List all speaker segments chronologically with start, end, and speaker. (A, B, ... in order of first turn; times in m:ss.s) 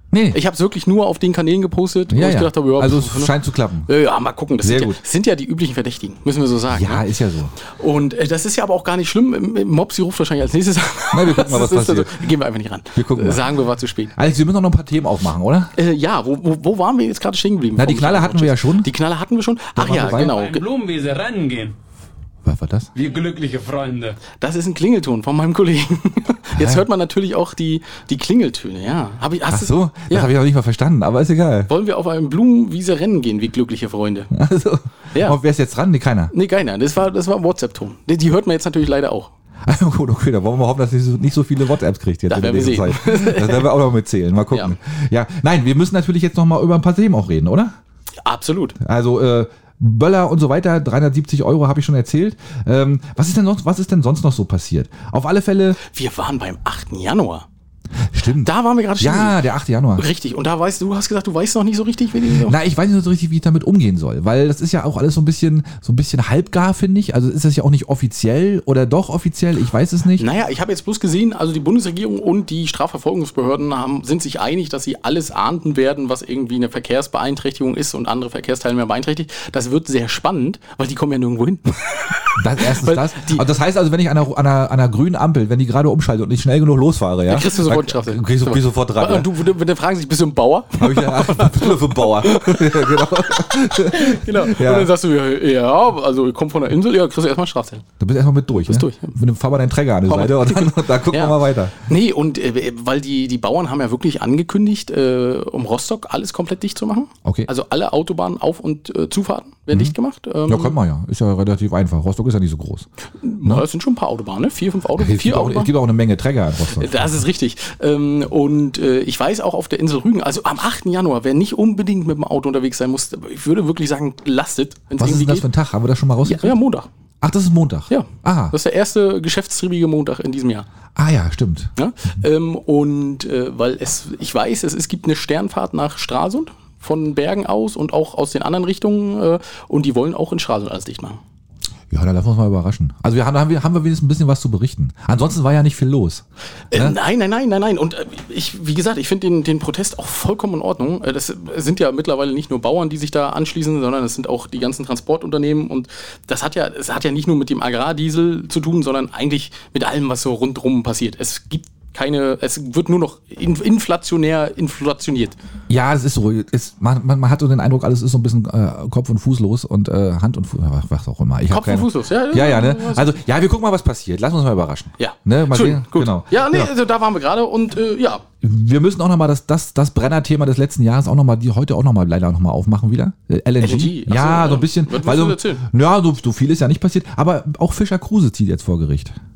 0:00.1-0:00.4 A
0:00.3-0:07.0 B
0:02.1-0:03.9 A
0:04.6-0:05.0 A
0:06.7-0:07.5 A
0:07.7-0:14.1 B
0:11.1-0:12.3 A
0:12.9-0:13.5 A
0:14.1-0:15.7 A
0:15.8-0:20.6 B
0:17.8-0:18.9 A
0:19.8-0:20.3 A
0:20.1-0:21.7 C
0:22.4-0:22.9 A
0:22.9-0:24.2 C
0:24.4-0:30.3 B
0:26.6-0:26.8 A
0:29.5-0:31.7 A
0:31.7-0:34.3 B
0:34.3-0:36.3 A
0:36.3-0:39.3 B
0:39.6-0:47.7 A
0:42.3-0:43.7 B
0:44.5-0:44.8 B
0:48.2-0:48.8 B
0:48.8-0:55.8 A
0:55.8-0:57.4 B
0:58.1-1:00.1 A
0:58.4-1:02.6 B
1:02.4-1:10.2 A
1:10.2-1:23.4 B
1:22.4-1:29.3 A
1:27.3-1:37.8 B
1:30.8-1:34.9 A
1:38.0-1:41.8 A
1:38.6-1:39.1 B
1:40.1-1:50.8 B
1:50.5-1:52.9 A
1:53.2-1:55.7 B
1:55.0-1:57.2 A
1:56.7-2:05.5 B
2:05.0-2:06.6 A
2:06.2-2:06.9 B
2:07.2-2:08.5 A
2:07.9-2:10.7 B
2:11.0-2:11.7 A
2:11.8-2:21.2 B
2:21.9-2:27.0 A
2:26.7-2:45.4 B
2:45.7-2:56.7 A
2:51.5-2:53.2 B
2:55.0-2:58.2 B
2:58.4-3:09.2 A
3:03.6-3:05.6 B